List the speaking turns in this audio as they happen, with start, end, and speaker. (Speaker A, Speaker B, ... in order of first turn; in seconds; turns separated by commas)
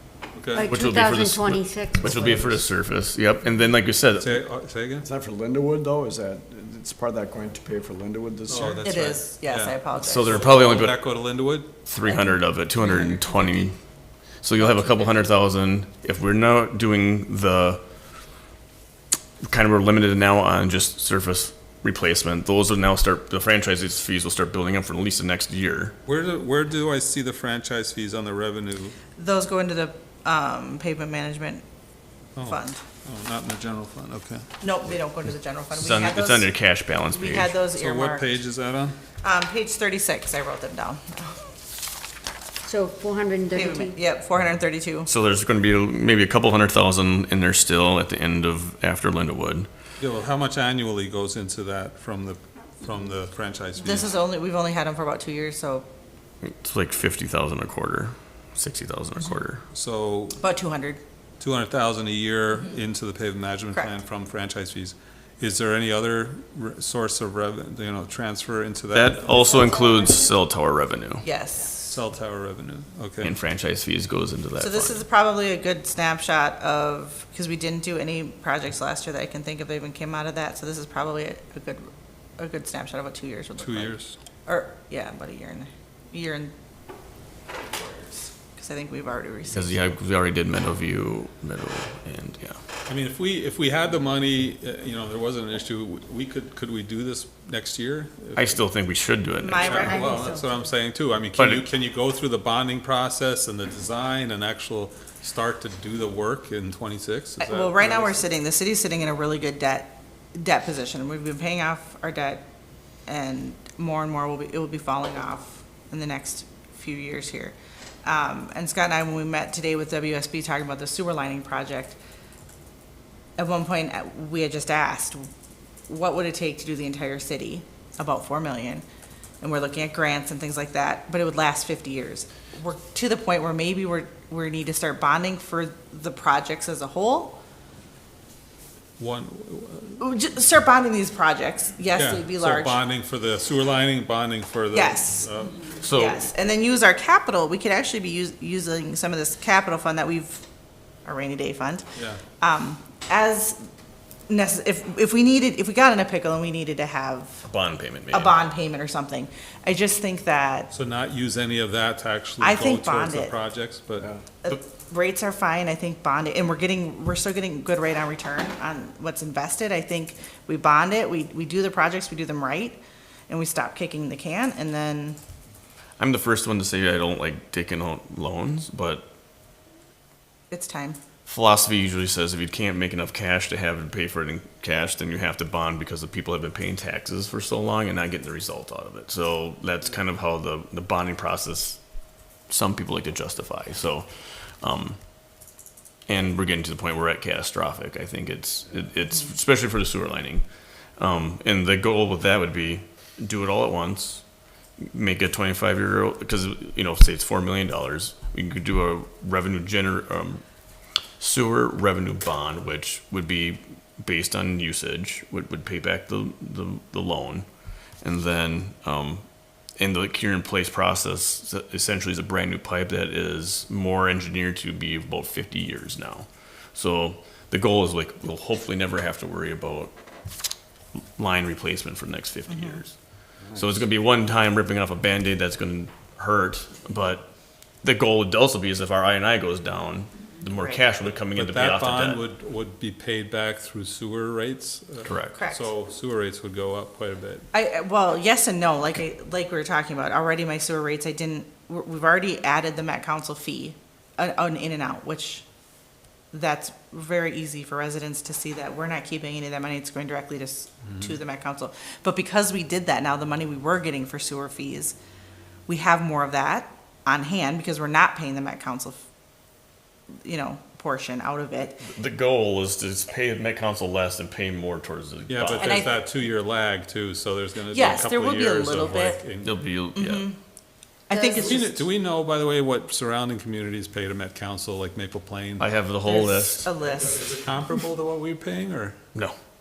Speaker A: 0.3-0.7, Speaker B: 0.5-2.6, Speaker C: 0.7-4.3, Speaker A: 4.2-5.1, Speaker D: 5.0-8.8, Speaker A: 8.5-11.7, Speaker E: 8.8-10.4, Speaker C: 10.0-11.0, Speaker C: 11.8-13.8, Speaker B: 12.9-13.3, Speaker C: 14.4-17.8, Speaker B: 14.8-15.1, Speaker C: 19.4-25.9, Speaker A: 26.1-29.0, Speaker E: 29.1-31.6, Speaker A: 32.4-34.5, Speaker E: 32.4-32.8, Speaker E: 34.6-36.5, Speaker C: 35.7-37.5, Speaker E: 37.1-38.3, Speaker A: 37.8-39.0, Speaker E: 39.2-41.5, Speaker B: 42.6-44.0, Speaker E: 43.5-45.1, Speaker C: 45.1-49.7, Speaker A: 50.0-54.1, Speaker E: 53.8-55.9, Speaker C: 56.4-59.6, Speaker A: 59.7-60.4, Speaker E: 60.4-61.0, Speaker A: 61.4-69.5, Speaker C: 68.9-71.2, Speaker E: 71.2-72.0, Speaker A: 71.9-73.3, Speaker C: 73.2-75.0, Speaker E: 74.6-86.5, Speaker A: 83.6-84.2, Speaker E: 87.8-89.8, Speaker C: 89.5-92.6, Speaker A: 92.9-98.6, Speaker C: 98.3-99.9, Speaker E: 99.4-100.4, Speaker A: 99.5-108.2, Speaker B: 99.8-100.4, Speaker C: 101.4-101.7, Speaker E: 107.4-112.4, Speaker E: 113.0-122.0, Speaker E: 123.4-125.3, Speaker E: 125.9-128.8, Speaker E: 129.4-137.4, Speaker A: 139.0-140.0, Speaker E: 140.0-142.8, Speaker A: 141.9-145.6, Speaker E: 144.7-145.3, Speaker C: 145.8-146.3, Speaker E: 145.9-150.4, Speaker E: 151.0-151.8, Speaker A: 151.9-152.2, Speaker E: 152.4-153.6, Speaker E: 154.3-157.5, Speaker C: 157.5-158.4, Speaker E: 158.1-160.7, Speaker A: 160.7-164.1, Speaker E: 162.4-163.3, Speaker E: 164.4-175.2, Speaker C: 176.0-179.0, Speaker E: 180.5-181.0, Speaker C: 181.2-191.8, Speaker C: 192.4-194.1, Speaker C: 194.6-195.0, Speaker C: 196.1-200.4, Speaker C: 201.0-204.2, Speaker C: 204.8-210.4, Speaker C: 211.2-217.4, Speaker C: 218.0-219.2, Speaker C: 219.8-229.9, Speaker C: 230.9-233.0, Speaker E: 232.5-232.8, Speaker A: 233.4-233.8, Speaker C: 233.5-237.3, Speaker C: 237.8-242.2, Speaker A: 241.3-247.4, Speaker C: 245.0-245.3, Speaker E: 245.3-245.7, Speaker E: 247.5-255.4, Speaker E: 256.3-264.9, Speaker E: 265.7-269.0, Speaker E: 270.2-271.9, Speaker C: 271.8-275.8, Speaker A: 275.3-279.6, Speaker E: 275.6-276.0, Speaker E: 277.7-279.2, Speaker C: 279.4-280.3, Speaker E: 279.9-280.4, Speaker E: 281.1-281.8, Speaker B: 281.1-281.6, Speaker A: 281.4-285.7, Speaker C: 285.6-286.7, Speaker E: 286.0-287.3, Speaker A: 286.9-289.0